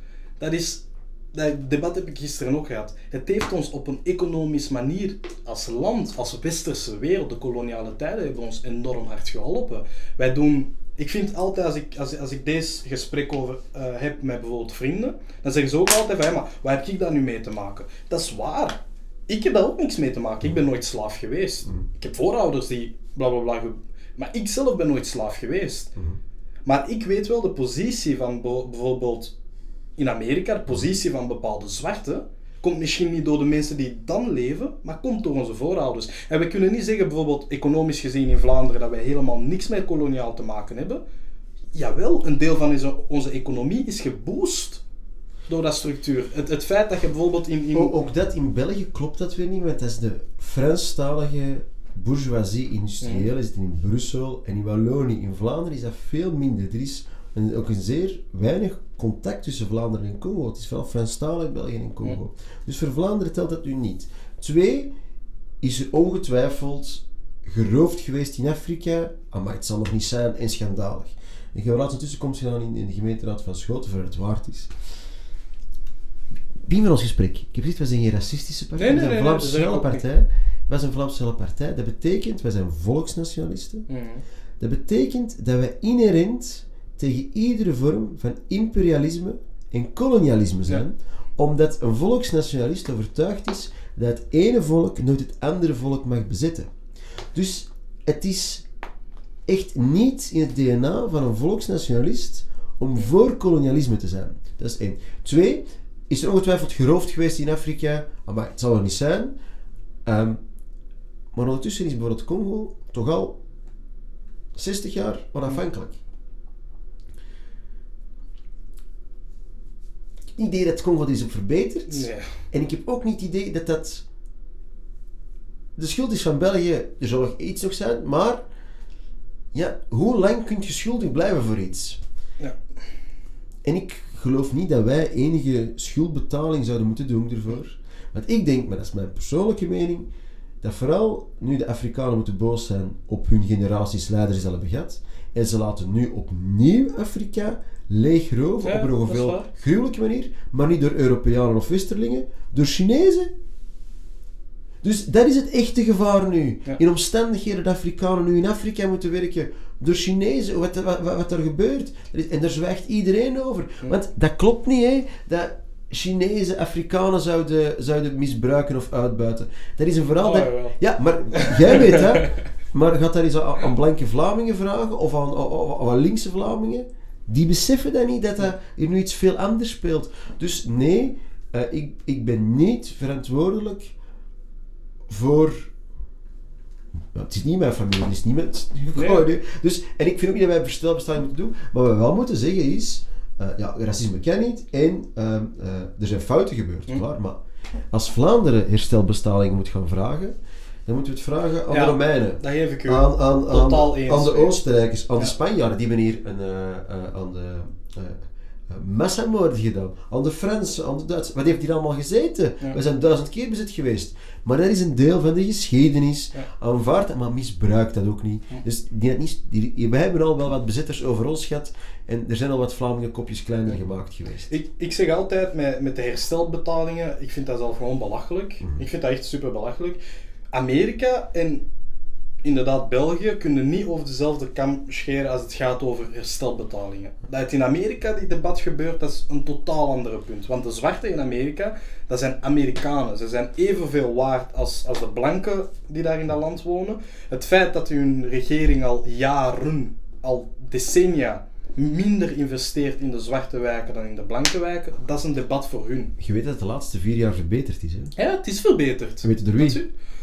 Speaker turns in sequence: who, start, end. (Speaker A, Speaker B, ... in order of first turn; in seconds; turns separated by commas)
Speaker A: 0.4-25.9, Speaker A: 26.6-29.3, Speaker A: 30.0-41.0, Speaker A: 41.7-44.8, Speaker A: 45.5-47.9, Speaker B: 47.7-64.9, Speaker A: 53.0-53.3, Speaker B: 65.6-74.7, Speaker B: 76.5-83.9, Speaker A: 78.8-80.0, Speaker A: 83.9-84.2, Speaker B: 84.6-96.7, Speaker B: 97.3-98.6, Speaker B: 99.5-109.3, Speaker B: 110.0-110.4, Speaker B: 111.3-113.4, Speaker B: 114.5-115.9, Speaker B: 120.3-124.0, Speaker A: 121.9-122.3, Speaker B: 125.8-128.4, Speaker B: 129.5-132.0, Speaker B: 133.6-140.1, Speaker B: 140.6-153.3, Speaker A: 148.6-149.5, Speaker B: 154.8-183.9, Speaker A: 170.2-170.8, Speaker A: 171.3-172.4, Speaker B: 185.1-185.7, Speaker B: 186.9-224.5, Speaker A: 188.9-189.2, Speaker A: 201.7-204.5, Speaker A: 224.5-230.0, Speaker A: 230.5-231.6, Speaker A: 232.4-256.1, Speaker B: 256.2-258.1, Speaker A: 258.1-259.9, Speaker B: 259.2-259.8